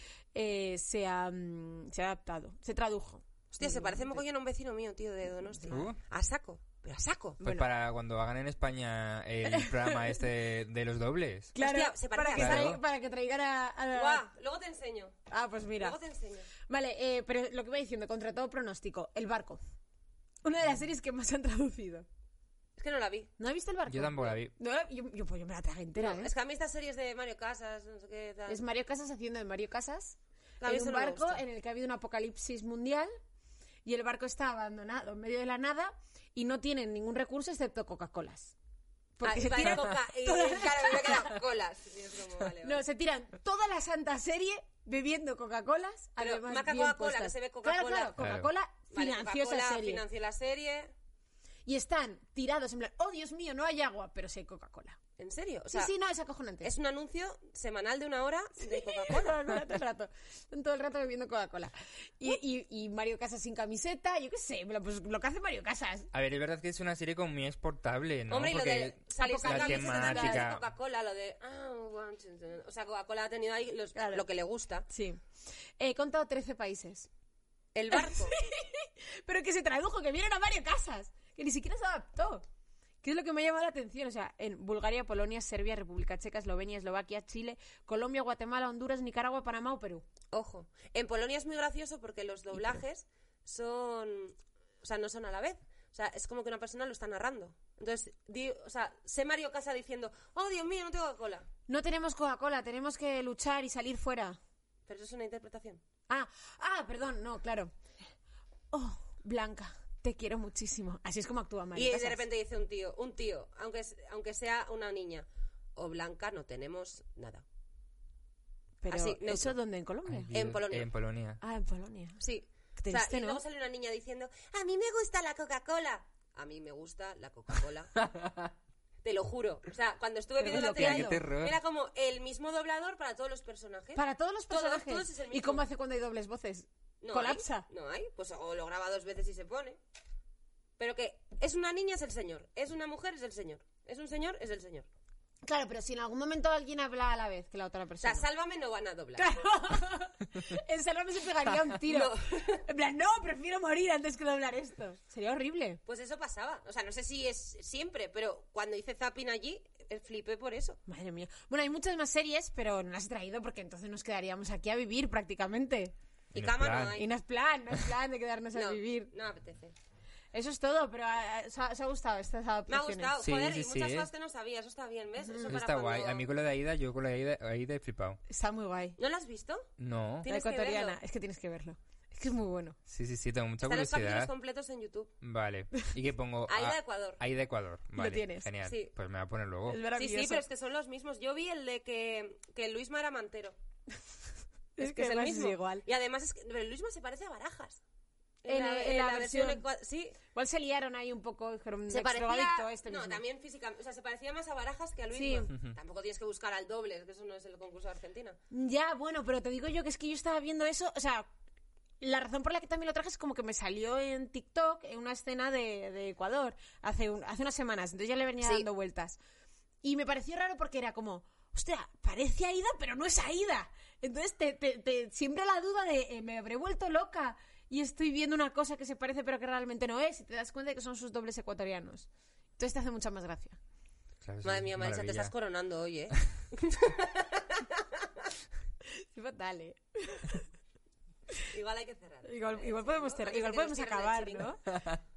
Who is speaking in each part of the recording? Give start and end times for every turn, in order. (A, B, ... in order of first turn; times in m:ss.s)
0:00.3-0:04.2 A
0:03.5-0:07.4 B
0:05.7-0:06.0 C
0:07.4-0:11.5 C
0:07.4-0:07.7 A
0:09.5-0:10.1 A
0:11.5-0:14.3 A
0:11.6-0:12.8 B
0:12.3-0:12.8 C
0:13.9-0:15.2 B
0:15.3-0:16.0 A
0:15.8-0:16.5 B
0:16.7-0:19.6 A
0:20.4-0:22.1 A
0:22.8-0:23.3 B
0:23.4-0:26.3 A
0:23.9-0:24.5 C
0:26.0-0:28.6 B
0:28.5-0:33.1 A
0:30.6-0:31.4 B
0:33.8-0:38.6 A
0:39.2-0:41.4 A
0:39.2-0:42.8 B
0:42.6-0:50.0 A
0:46.2-0:48.1 B
0:48.2-0:48.5 C
0:48.9-0:50.9 B
0:51.7-0:55.0 A
0:55.2-0:55.9 B
0:55.7-0:56.7 A
0:56.6-0:59.4 B
0:58.6-1:06.1 A
1:06.1-1:10.6 C
1:08.3-1:14.9 B
1:09.2-1:10.5 A
1:14.0-1:14.2 A
1:14.9-1:15.2 A
1:15.8-1:17.1 A
1:17.8-1:18.4 B
1:17.9-1:22.4 A
1:23.0-1:30.1 A
1:30.3-1:41.5 B
1:41.7-1:44.4 A
1:44.9-1:45.8 B
1:46.1-1:47.7 A
1:48.7-1:52.2 A
1:51.8-1:57.4 B
1:58.8-2:00.3 A
1:58.9-1:59.6 B
2:00.1-2:01.4 C
2:00.3-2:00.9 B
2:01.4-2:02.2 A
2:02.2-2:08.0 B
2:02.8-2:03.4 A
2:08.1-2:08.5 C
2:09.0-2:15.6 B
2:10.4-2:11.2 A
2:10.5-2:11.6 C
2:14.0-2:17.7 A
2:17.0-2:19.8 B
2:20.8-2:24.9 B
2:25.4-2:28.3 A
2:28.0-2:29.3 B
2:29.2-2:35.8 A
2:31.9-2:32.6 B
2:35.9-2:40.8 B
2:40.9-2:45.9 A
2:46.3-2:47.0 C
2:46.3-2:47.1 B
2:46.9-2:49.1 A
2:48.6-2:49.8 B
2:50.3-2:53.1 A
2:52.7-2:56.3 B
2:53.2-2:54.1 C
2:55.2-2:55.5 A
2:55.5-2:58.2 C
2:58.3-2:59.0 A
2:59.0-2:59.7 B
2:59.8-3:00.3 C
3:00.2-3:01.0 B
3:00.3-3:02.8 A
3:02.9-3:04.3 C
3:03.6-3:05.1 B
3:05.2-3:09.8 C
3:06.5-3:07.2 B
3:08.0-3:08.5 A
3:08.6-3:08.9 B
3:09.7-3:10.4 A
3:10.0-3:13.6 B
3:14.8-3:15.8 A
3:14.8-3:17.8 B
3:18.4-3:20.2 B
3:18.5-3:19.6 A
3:20.3-3:23.2 A
3:21.9-3:28.4 B
3:25.1-3:25.5 A
3:28.5-3:31.3 A
3:32.0-3:39.2 A
3:39.8-3:53.6 A
3:54.2-3:55.3 C
3:54.4-3:58.1 B
3:58.9-4:00.5 A
4:01.5-4:04.5 B
4:02.2-4:04.7 A
4:04.7-4:05.0 C